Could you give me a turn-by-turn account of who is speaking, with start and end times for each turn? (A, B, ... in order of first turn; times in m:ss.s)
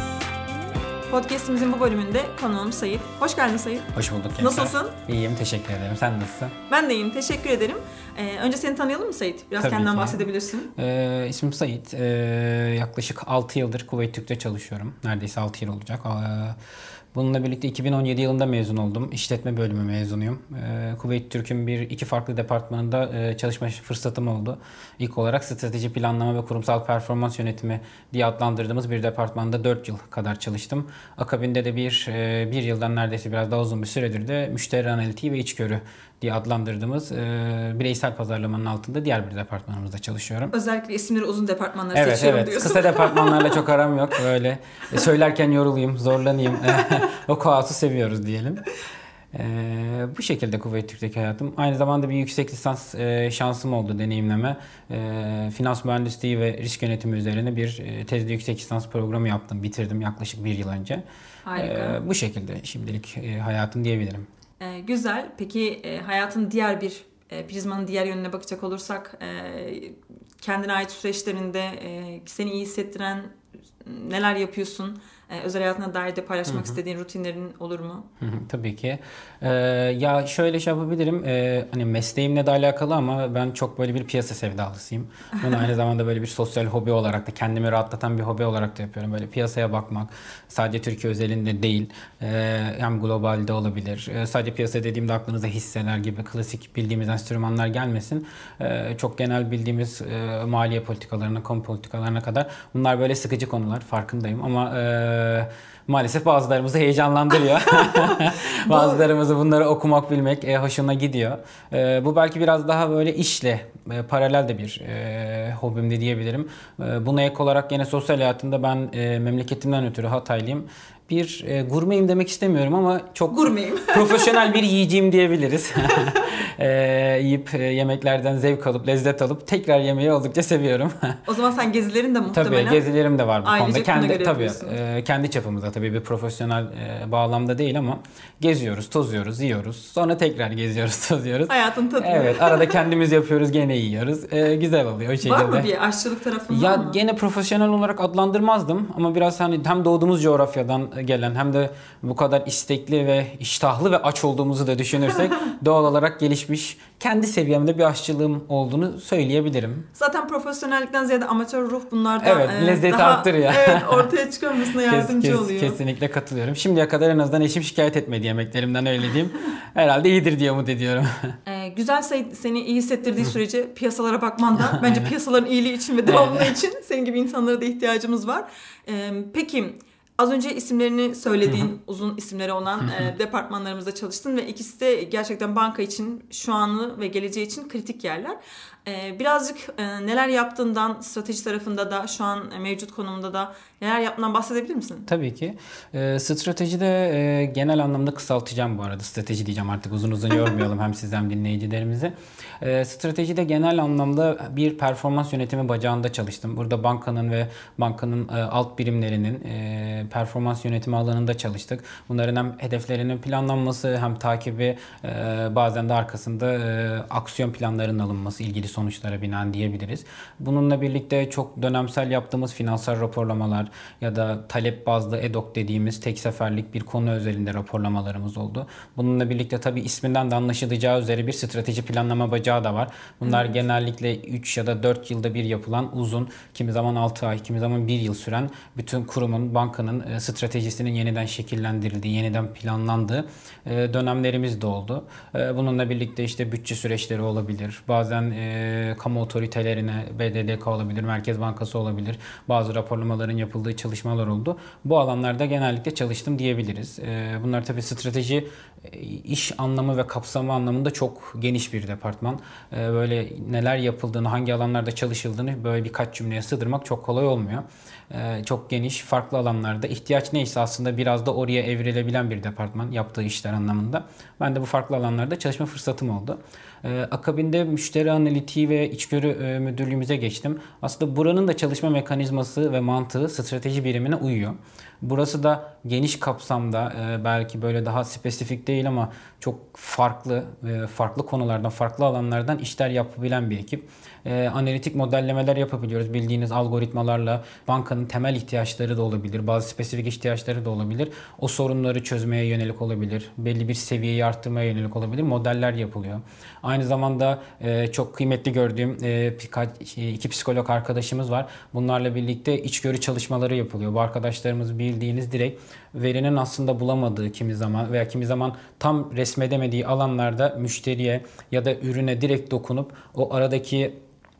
0:01.1-0:05.0 A
0:03.9-0:06.6 B
0:06.7-0:10.7 A
0:09.6-0:16.6 B
0:17.1-0:40.5 B
0:40.5-0:43.6 A
0:41.9-0:48.6 B
0:49.3-1:01.0 B
1:01.4-1:02.0 A
1:01.6-1:04.3 B
1:04.6-1:18.1 A
1:16.5-1:16.8 B
1:18.2-2:11.2 B
1:47.9-1:49.0 A
2:03.3-2:04.5 A
2:11.2-2:12.8 A
2:12.3-2:25.7 B
2:13.4-2:14.8 A
2:21.5-2:22.8 A
2:25.2-2:27.0 A
2:26.5-2:39.8 B
2:39.9-2:45.8 A
2:42.2-2:44.1 B
2:44.8-2:51.4 B
2:51.4-3:15.1 A
2:54.7-2:55.1 B
2:56.1-2:56.5 B
3:15.1-5:23.9 B
3:53.2-3:53.5 A